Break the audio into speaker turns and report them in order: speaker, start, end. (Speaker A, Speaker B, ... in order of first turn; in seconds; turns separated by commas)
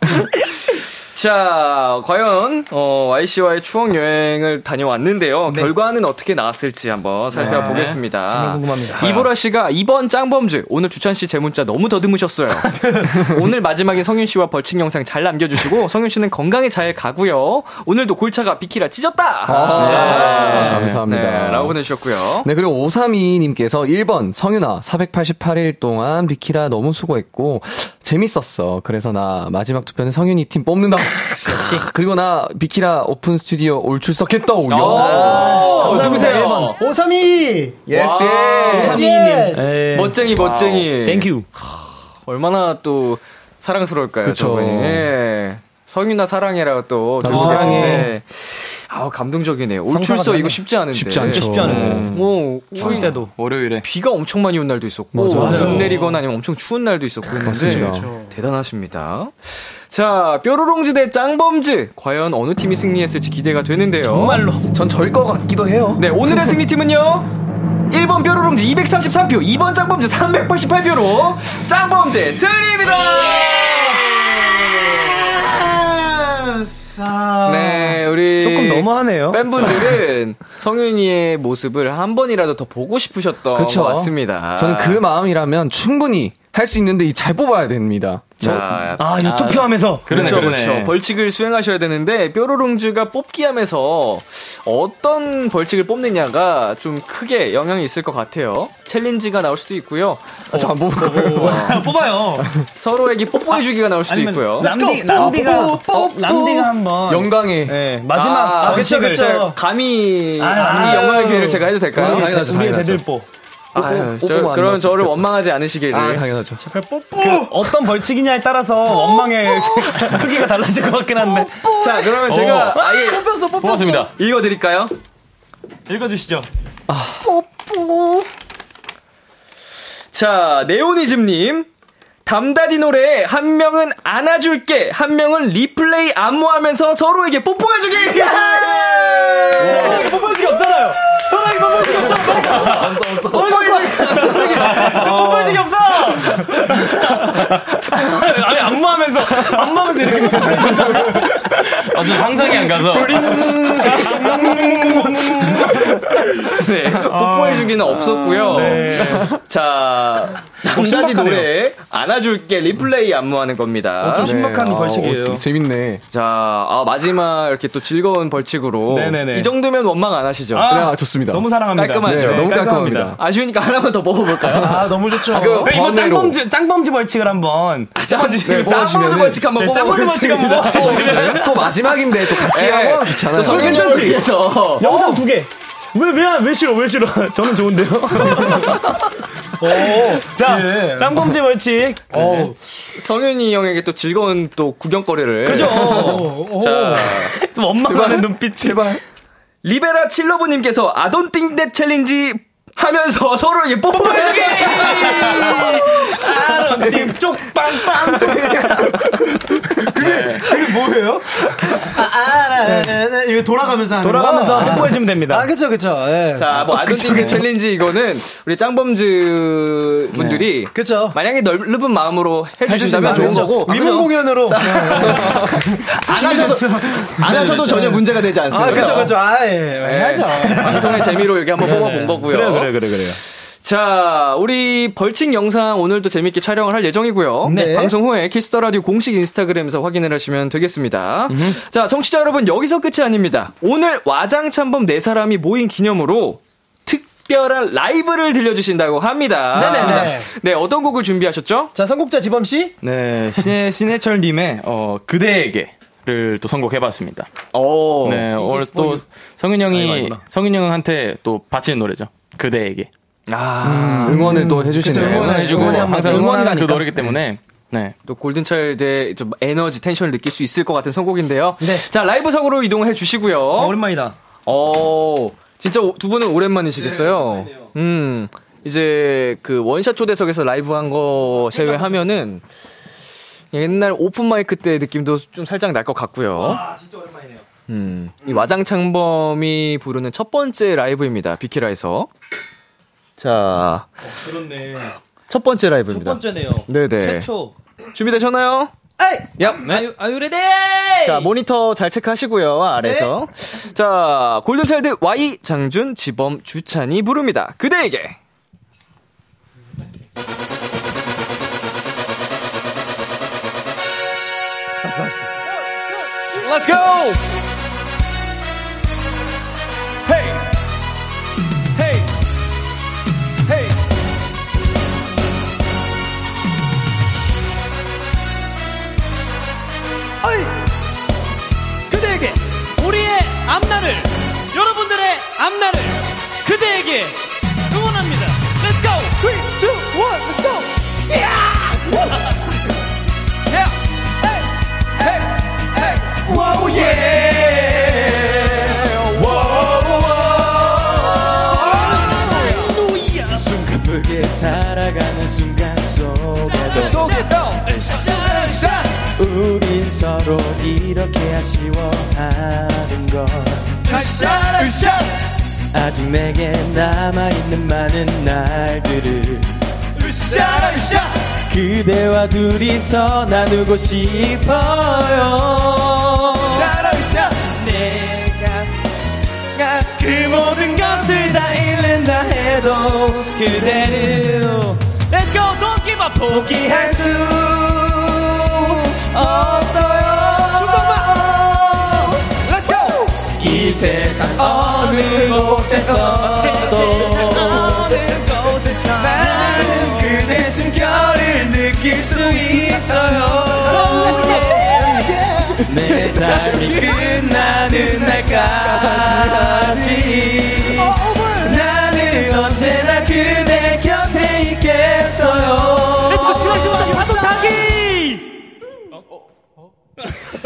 Speaker A: 1.1-22.5, Speaker B: 7.3-9.3, Speaker C: 7.4-7.9, Speaker D: 7.7-8.0, Speaker C: 12.7-13.1, Speaker E: 19.5-21.8, Speaker D: 19.7-21.0, Speaker E: 22.4-35.8, Speaker A: 34.7-36.8, Speaker B: 34.9-36.8, Speaker C: 35.4-37.8, Speaker E: 37.9-39.1, Speaker A: 37.9-39.1, Speaker C: 38.7-39.8, Speaker B: 38.7-40.2, Speaker A: 39.9-53.1, Speaker D: 40.3-40.9, Speaker B: 41.0-41.5, Speaker E: 44.2-45.1, Speaker E: 47.2-48.1, Speaker B: 47.3-48.0, Speaker B: 49.9-50.6, Speaker E: 50.9-52.2, Speaker B: 51.2-52.1, Speaker D: 51.6-52.2, Speaker B: 52.8-53.3, Speaker D: 52.8-53.8, Speaker A: 53.8-64.4, Speaker E: 55.1-56.0, Speaker C: 55.4-56.2, Speaker B: 55.4-55.8, Speaker E: 57.4-58.1, Speaker C: 57.6-58.3, Speaker B: 64.0-64.6, Speaker E: 64.7-66.3, Speaker A: 66.0-67.3, Speaker A: 67.9-75.0, Speaker C: 72.8-78.0, Speaker A: 77.4-85.0, Speaker B: 78.4-79.7, Speaker E: 83.5-88.8, Speaker A: 88.4-89.1, Speaker B: 89.0-90.5, Speaker D: 89.2-91.0, Speaker A: 90.1-100.4, Speaker E: 100.5-102.7, Speaker C: 100.5-101.6, Speaker B: 101.3-102.5, Speaker A: 101.4-101.8, Speaker A: 102.7-104.7, Speaker B: 103.5-109.4, Speaker C: 104.6-106.7, Speaker E: 105.1-107.8, Speaker A: 108.1-112.3, Speaker C: 108.6-109.6, Speaker B: 110.4-113.3, Speaker C: 110.5-111.5, Speaker E: 111.9-113.0, Speaker A: 113.7-116.2, Speaker E: 113.7-115.3, Speaker E: 115.9-116.6, Speaker C: 116.6-117.7, Speaker B: 117.2-121.6, Speaker C: 118.9-120.4, Speaker C: 121.2-124.1, Speaker A: 121.8-123.2, Speaker D: 123.6-124.1, Speaker A: 124.2-124.9, Speaker B: 125.9-126.5, Speaker E: 126.9-127.3, Speaker C: 127.2-128.3, Speaker A: 130.1-131.7, Speaker A: 132.2-140.0, Speaker C: 138.0-140.4, Speaker B: 139.6-151.2, Speaker C: 141.3-142.5, Speaker E: 142.0-143.6, Speaker A: 143.3-144.9, Speaker C: 144.2-145.7, Speaker C: 150.3-150.7, Speaker D: 151.4-153.5, Speaker C: 152.6-155.7, Speaker A: 153.5-154.7, Speaker B: 153.8-155.9, Speaker A: 155.7-164.3, Speaker B: 157.1-157.8, Speaker B: 158.4-159.3, Speaker E: 159.0-159.3, Speaker B: 160.6-161.5, Speaker B: 164.0-165.4, Speaker E: 164.2-166.0, Speaker A: 166.1-170.8, Speaker B: 168.9-169.5, Speaker B: 170.5-173.2, Speaker E: 170.6-171.5, Speaker A: 171.7-174.8, Speaker E: 172.0-173.2, Speaker C: 174.5-175.7, Speaker E: 174.5-176.4, Speaker B: 175.5-178.9, Speaker A: 177.9-181.2, Speaker E: 178.4-179.5, Speaker B: 179.6-181.7, Speaker E: 180.5-184.2, Speaker A: 182.3-184.8, Speaker B: 183.4-189.0, Speaker C: 184.8-185.2, Speaker C: 189.6-191.2, Speaker B: 189.6-192.4, Speaker C: 192.1-192.6, Speaker A: 192.9-197.3, Speaker B: 195.4-196.3, Speaker C: 195.8-197.2, Speaker B: 197.2-198.9, Speaker E: 197.8-199.0, Speaker A: 199.6-206.0, Speaker B: 204.0-208.9, Speaker C: 204.2-207.1, Speaker C: 207.8-217.5, Speaker D: 209.9-210.5, Speaker B: 214.0-215.5, Speaker A: 216.3-229.2, Speaker C: 220.7-221.2, Speaker C: 222.7-232.2, Speaker B: 223.0-224.1, Speaker E: 225.0-225.7, Speaker A: 229.8-232.8, Speaker B: 232.2-233.2, Speaker A: 233.6-251.7, Speaker C: 237.4-237.9, Speaker B: 241.3-241.6, Speaker C: 249.5-250.3, Speaker B: 249.6-250.1, Speaker C: 251.7-252.8, Speaker D: 252.8-257.3, Speaker A: 257.5-258.3, Speaker D: 258.0-262.9, Speaker B: 258.4-259.0, Speaker B: 259.7-260.2, Speaker A: 263.3-264.3, Speaker E: 263.6-265.9, Speaker C: 264.1-266.2, Speaker B: 264.3-266.9, Speaker D: 264.9-267.9, Speaker A: 268.1-273.8, Speaker B: 273.6-274.1, Speaker A: 274.4-282.4, Speaker B: 276.8-277.7, Speaker B: 281.5-282.0, Speaker A: 283.5-286.6, Speaker B: 286.4-287.4, Speaker A: 287.7-292.1, Speaker A: 293.2-293.9, Speaker B: 294.0-294.9, Speaker A: 295.3-297.3, Speaker B: 295.9-297.5, Speaker A: 297.9-298.7, Speaker C: 299.0-299.5, Speaker E: 299.4-299.6, Speaker B: 299.6-301.3, Speaker A: 301.0-308.2, Speaker C: 302.8-303.1, Speaker E: 314.8-315.1, Speaker E: 316.4-317.2, Speaker E: 320.1-320.4, Speaker E: 321.8-322.1, Speaker C: 330.2-330.5, Speaker C: 331.9-332.4, Speaker B: 332.8-337.2, Speaker B: 337.7-339.1, Speaker C: 339.2-342.2, Speaker E: 345.0-346.1, Speaker F: 346.3-348.2, Speaker F: 349.2-350.0, Speaker E: 350.4-350.8, Speaker E: 351.5-352.5, Speaker C: 351.7-352.8, Speaker F: 353.2-357.1, Speaker E: 356.7-357.8, Speaker F: 357.7-358.5, Speaker B: 358.2-358.5, Speaker E: 358.4-358.8, Speaker F: 359.0-363.8, Speaker E: 363.9-365.0, Speaker F: 365.7-369.5, Speaker E: 370.3-370.9, Speaker F: 370.4-370.8, Speaker F: 371.3-379.0, Speaker F: 379.5-385.0, Speaker B: 385.1-386.4, Speaker F: 386.2-392.1, Speaker C: 390.5-392.1, Speaker E: 392.5-393.1, Speaker F: 393.3-398.0, Speaker E: 394.4-395.3, Speaker B: 397.0-400.1, Speaker F: 399.0-405.1, Speaker C: 403.6-405.7, Speaker B: 404.1-404.4, Speaker F: 405.6-416.9, Speaker E: 406.0-406.5, Speaker E: 408.7-409.3, Speaker C: 410.8-411.5, Speaker B: 416.1-418.2, Speaker C: 416.2-417.8